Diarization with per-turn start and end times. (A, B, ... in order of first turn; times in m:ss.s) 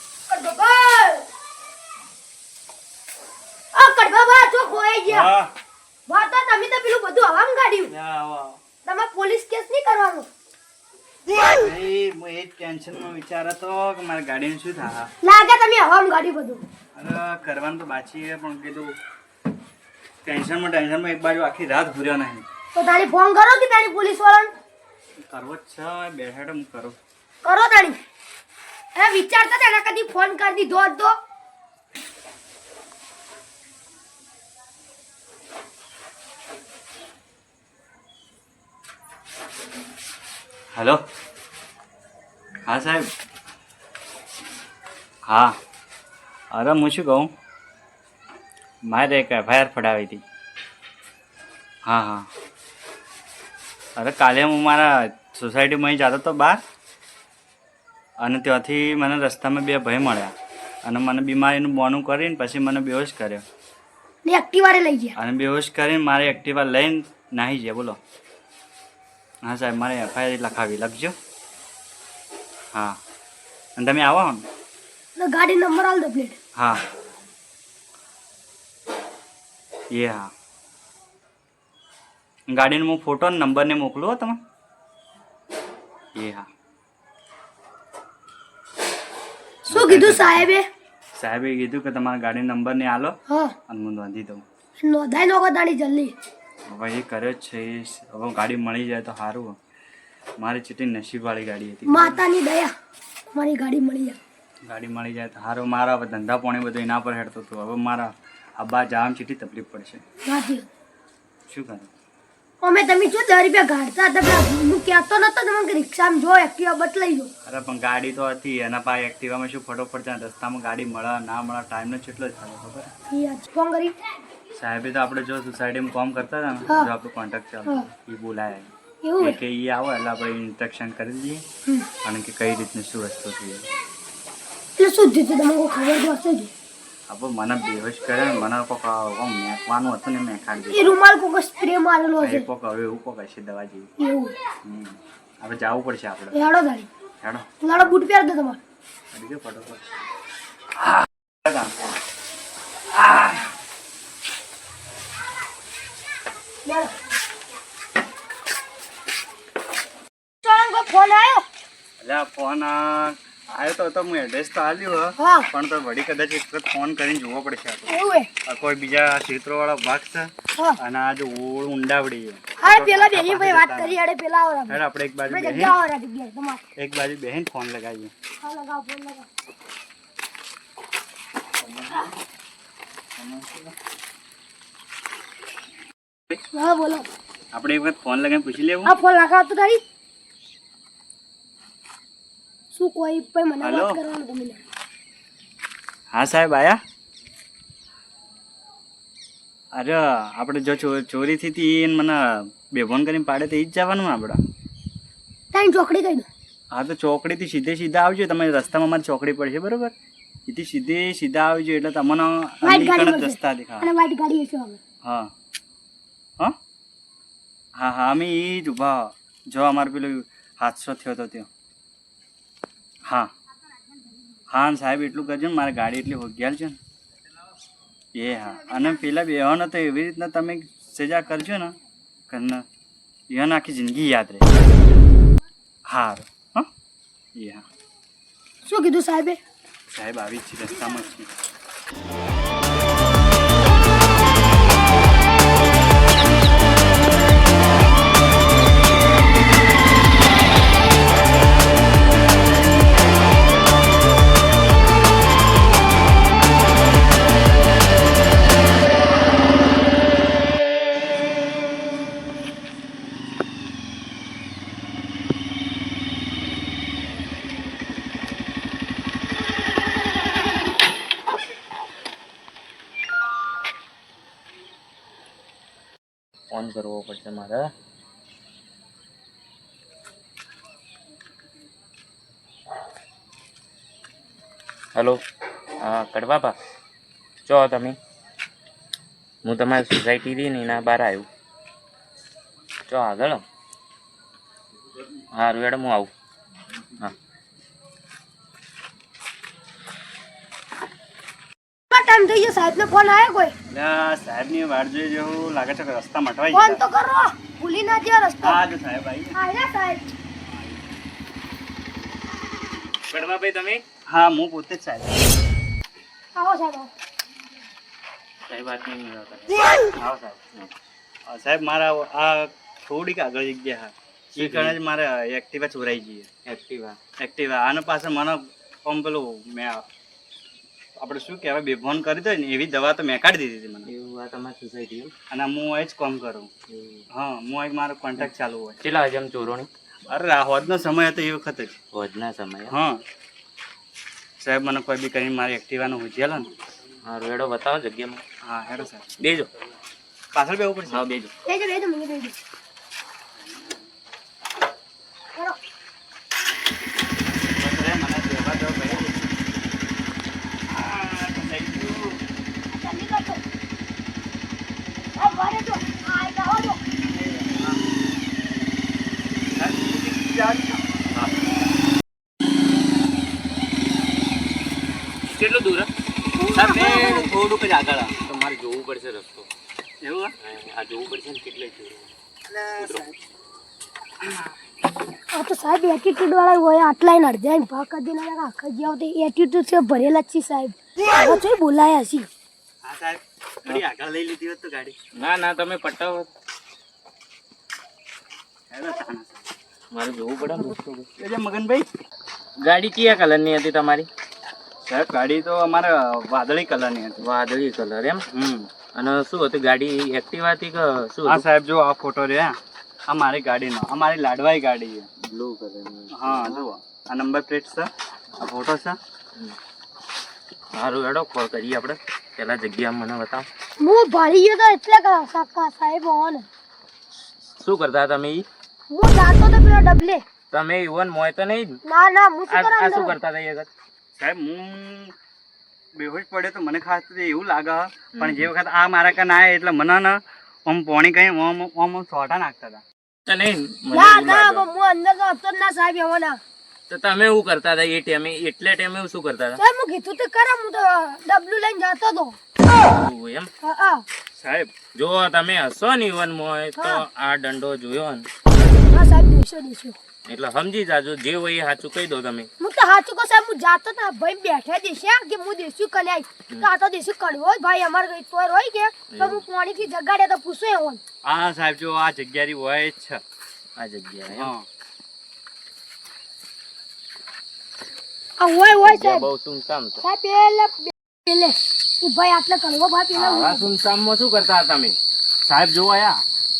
0:00.3-0:01.2 A
0:03.7-0:05.3 A
0:05.1-0:05.5 B
0:06.1-0:07.9 A
0:07.9-0:08.6 B
0:08.8-0:10.3 A
0:11.4-0:15.1 B
0:15.2-0:16.6 A
0:16.9-0:18.9 B
0:20.2-0:22.4 B
0:22.7-0:24.5 A
0:25.2-0:27.0 B
0:27.4-0:28.0 A
0:29.0-0:31.2 A
0:40.7-0:41.0 B
0:42.7-0:43.1 B
0:45.3-0:45.6 B
0:46.5-0:47.3 B
0:48.9-0:50.2 B
0:51.8-0:52.3 B
0:54.0-0:56.6 B
0:58.2-1:00.3 B
1:00.8-1:03.4 B
1:04.2-1:05.2 A
1:05.2-1:08.0 B
1:09.4-1:11.1 B
1:13.8-1:14.4 B
1:15.2-1:16.4 A
1:16.6-1:16.8 B
1:19.9-1:20.3 B
1:22.5-1:24.4 B
1:26.2-1:26.5 B
1:29.7-1:30.5 B
1:29.7-1:30.6 A
1:31.2-1:33.1 B
1:33.3-1:33.5 A
1:33.7-1:34.4 B
1:34.8-1:36.1 A
1:36.7-1:39.6 B
1:40.4-1:42.2 B
1:41.9-1:42.7 A
1:43.3-1:44.2 A
1:44.7-1:50.0 B
1:50.2-1:50.7 A
1:51.5-1:51.9 B
1:52.6-1:57.3 A
1:57.4-2:02.9 B
2:03.1-2:03.9 A
2:04.6-2:11.4 B
2:09.0-2:09.4 A
2:12.0-2:13.7 B
2:14.8-2:16.5 A
2:17.1-2:20.9 B
2:20.7-2:22.5 A
2:22.2-2:23.9 B
2:24.0-2:24.3 A
2:24.6-2:26.3 B
2:26.3-2:26.9 A
2:27.2-2:27.5 B
2:27.6-2:28.6 A
2:29.1-2:29.8 B
2:30.8-2:31.7 B
2:33.0-2:33.4 B
2:36.6-2:36.9 A
2:40.4-2:41.4 A
2:42.0-2:47.9 B
2:45.2-2:45.5 A
2:47.9-2:48.3 A
2:48.4-2:54.0 B
2:52.6-2:56.6 A
2:54.7-2:55.7 B
2:56.8-2:58.1 B
2:58.4-2:59.3 A
3:01.6-3:02.0 B
3:03.2-3:03.7 B
3:06.5-3:07.1 A
3:07.5-3:08.9 B
3:08.8-3:09.8 A
3:12.7-3:14.6 A
3:13.6-3:14.0 B
3:16.1-3:16.8 B
3:19.7-3:24.4 B
3:25.5-3:26.3 A
3:26.7-3:29.9 B
3:30.5-3:33.9 B
3:32.6-3:34.8 A
3:35.0-3:35.3 B
3:37.8-3:41.5 B
3:44.5-3:46.8 B
3:48.1-3:51.7 B
3:52.3-3:52.6 B
3:53.3-3:54.5 B
3:55.9-3:56.7 B
3:57.4-3:57.6 B
3:58.6-3:59.4 A
3:59.9-4:01.3 B
4:36.5-4:37.7 C
4:44.9-4:45.2 C
4:45.8-4:46.6 C
4:47.4-4:48.0 C
4:49.4-4:51.3 C
4:52.9-4:53.4 C
4:55.3-4:56.1 C
5:01.9-5:03.5 A
5:03.7-5:06.8 B
5:06.5-5:08.6 A
5:08.4-5:09.3 B
5:09.3-5:10.0 A
5:10.4-5:10.8 B
5:13.1-5:13.8 C
5:14.1-5:15.2 B
5:16.3-5:16.9 A
5:18.5-5:19.5 C
5:20.0-5:20.4 B
5:21.3-5:26.3 B
5:24.3-5:24.8 C
5:26.4-5:27.0 C
5:27.2-5:29.8 B
5:31.0-5:33.9 B
5:33.8-5:35.1 C
5:35.3-5:36.5 B
5:36.7-5:37.0 C
5:37.1-5:38.8 B
5:38.8-5:39.7 C
5:40.1-5:41.7 B
5:41.9-5:42.8 C
5:42.7-5:43.0 B
5:44.4-5:46.5 B
5:47.0-5:48.2 C
5:48.4-5:49.1 B
5:49.2-5:49.5 C
5:50.3-5:51.0 B
5:50.9-5:51.3 C
5:51.4-5:52.4 A
5:57.6-5:59.3 B
6:00.8-6:02.0 B
6:02.7-6:03.4 A
6:05.2-6:06.8 A
6:07.1-6:07.6 B
6:09.5-6:10.8 B
6:15.4-6:15.9 C
6:16.4-6:17.3 A
6:16.5-6:18.1 B
6:18.2-6:19.5 C
6:20.0-6:20.3 B
6:20.4-6:22.1 C
6:22.5-6:23.1 B
6:22.8-6:23.1 C
6:25.3-6:32.3 A
6:32.8-6:35.0 B
6:35.2-6:36.3 C
6:38.7-6:39.4 B
6:39.9-6:41.1 C
6:41.2-6:41.9 B
6:42.6-6:44.1 C
6:44.8-6:47.2 B
6:47.2-6:48.2 C
6:48.3-6:48.7 B
6:48.9-6:51.4 C
6:51.2-6:52.6 B
6:53.1-6:55.1 B
6:55.2-6:56.6 C
6:56.1-6:59.0 B
7:00.7-7:03.5 C
7:03.8-7:06.5 A
7:07.6-7:08.4 C
7:08.9-7:10.2 A
7:10.5-7:11.8 C
7:11.8-7:13.1 A
7:12.5-7:13.7 C
7:14.2-7:15.1 B
7:16.0-7:22.8 B
7:18.2-7:18.5 C
7:23.3-7:24.6 C
7:23.9-7:26.4 A
7:26.9-7:29.6 C
7:29.6-7:32.4 A
7:32.9-7:33.5 C
7:33.6-7:34.0 A
7:34.4-7:34.7 B
7:34.9-7:38.3 C
7:36.8-7:37.0 A
7:38.9-7:40.0 A
7:40.3-7:42.5 C
7:42.6-7:51.0 A
7:49.1-7:49.4 C
7:51.2-7:53.2 B
7:53.8-7:54.5 C
7:54.3-7:54.6 B
7:58.4-7:59.3 A
7:58.7-8:00.0 C
8:00.0-8:03.7 A
8:03.2-8:05.0 C
8:05.4-8:06.2 B